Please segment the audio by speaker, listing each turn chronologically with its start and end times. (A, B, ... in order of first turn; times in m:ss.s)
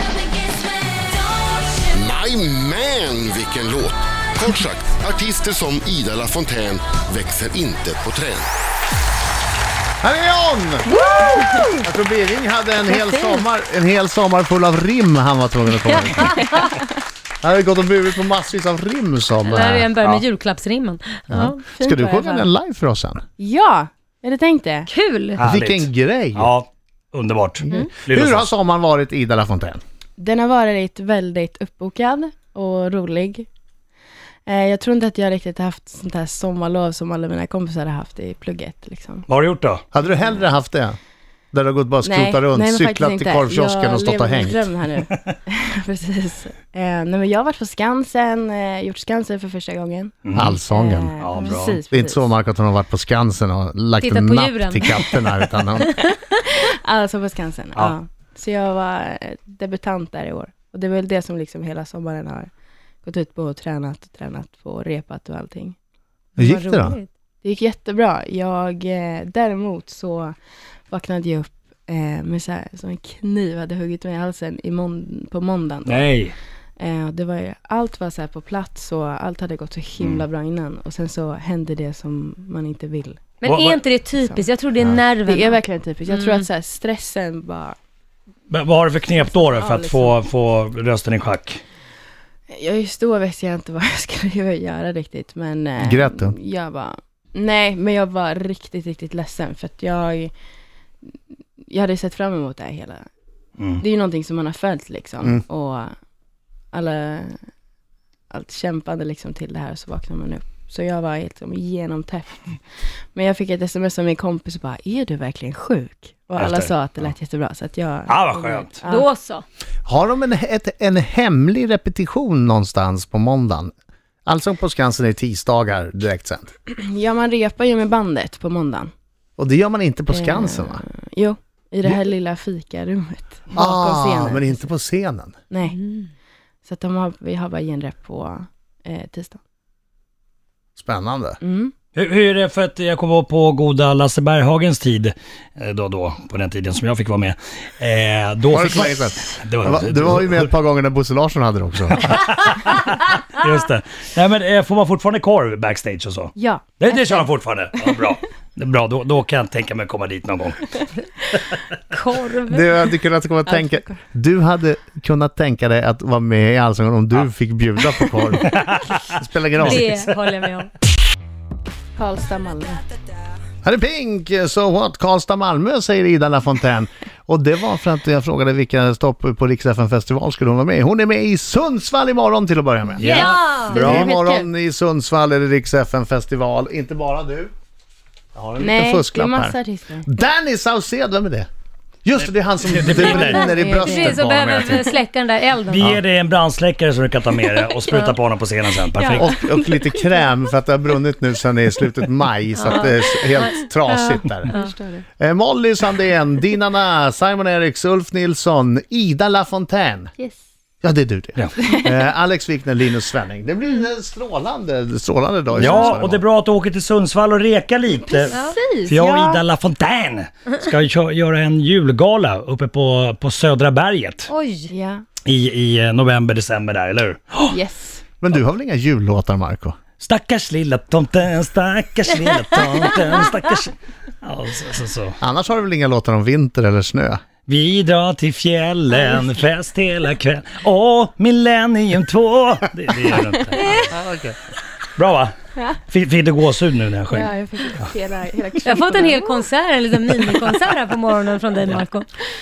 0:00.2-0:01.9 A
0:01.9-0:08.5 B
0:10.0-0:10.9 C
0:10.9-0:11.8 D
0:11.0-0:11.7 A
0:11.7-0:16.4 C
0:13.0-0:13.4 D
0:15.9-0:16.8 D
0:17.4-0:19.9 C
0:19.4-0:21.6 D
0:21.3-0:23.2 C
0:21.7-0:22.5 A
0:23.4-0:24.9 A
0:24.9-0:25.4 D
0:25.4-0:28.5 E
0:25.4-0:26.5 C
0:27.7-0:29.8 C
0:30.2-0:33.5 A
0:34.5-0:39.2 A
0:39.3-0:39.8 E
0:39.9-0:41.0 C
0:40.1-0:40.4 A
0:41.5-0:44.7 C
0:42.0-0:50.1 A
0:50.2-0:50.6 E
0:50.3-0:51.1 C
0:50.6-0:52.3 A
0:51.2-0:51.8 E
0:51.9-0:55.9 C
0:54.0-0:55.2 D
0:55.8-0:56.1 D
0:56.4-1:02.5 A
1:03.0-1:05.8 A
1:06.4-1:07.0 C
1:06.4-1:07.1 D
1:07.4-1:10.4 A
1:10.9-1:16.1 A
1:15.8-1:16.3 E
1:16.8-1:23.3 A
1:20.0-1:20.2 E
1:23.4-1:26.4 D
1:23.4-1:23.8 E
1:24.1-1:24.5 A
1:25.2-1:27.8 A
1:28.5-1:31.6 E
1:29.2-1:30.1 A
1:32.5-1:40.3 A
1:35.8-1:36.4 C
1:41.6-1:43.0 A
1:43.8-1:45.9 A
1:46.7-1:47.4 A
1:48.3-1:52.6 A
1:53.1-1:59.1 A
1:56.4-1:57.1 E
1:58.1-1:58.8 E
1:58.8-1:59.4 D
1:59.8-2:03.7 C
2:04.2-2:06.5 C
2:06.7-2:08.9 A
2:09.4-2:10.8 C
2:10.1-2:14.7 A
2:13.5-2:15.4 C
2:15.5-2:15.8 A
2:15.6-2:16.1 D
2:16.6-2:19.4 A
2:20.8-2:21.4 C
2:21.4-2:21.7 A
2:21.9-2:30.5 E
2:28.5-2:32.1 C
2:31.9-2:40.8 E
2:36.4-2:37.3 A
2:41.9-2:42.6 D
2:42.5-2:48.5 C
2:43.4-2:44.0 A
2:48.4-2:49.0 E
2:49.1-2:49.9 C
2:49.6-2:50.2 E
2:49.6-2:50.7 D
2:52.0-2:52.8 A
2:53.6-3:07.5 C
3:03.0-3:04.1 E
3:03.0-3:03.8 D
3:03.7-3:04.5 A
3:08.3-3:09.6 C
3:08.6-3:10.0 A
3:10.1-3:11.5 C
3:12.0-3:14.8 C
3:12.2-3:13.5 E
3:12.9-3:15.9 D
3:13.3-3:14.2 A
3:15.7-3:19.3 E
3:18.9-3:19.8 A
3:19.2-3:24.5 C
3:22.6-3:24.7 D
3:24.5-3:25.0 A
3:25.2-3:30.1 C
3:30.8-3:36.2 C
3:35.5-3:44.3 E
3:37.9-3:39.4 A
3:44.3-3:44.7 D
3:44.7-3:45.0 A
3:45.2-3:47.5 E
3:47.5-3:48.0 A
3:48.2-3:49.8 C
3:50.0-3:55.2 E
3:55.2-3:57.2 C
3:57.5-4:03.9 E
4:03.6-4:03.9 D
4:03.9-4:04.3 C
4:05.0-4:05.3 E
4:05.5-4:05.8 A
4:05.9-4:07.3 E
4:07.1-4:09.4 A
4:08.6-4:12.1 D
4:10.2-4:10.5 A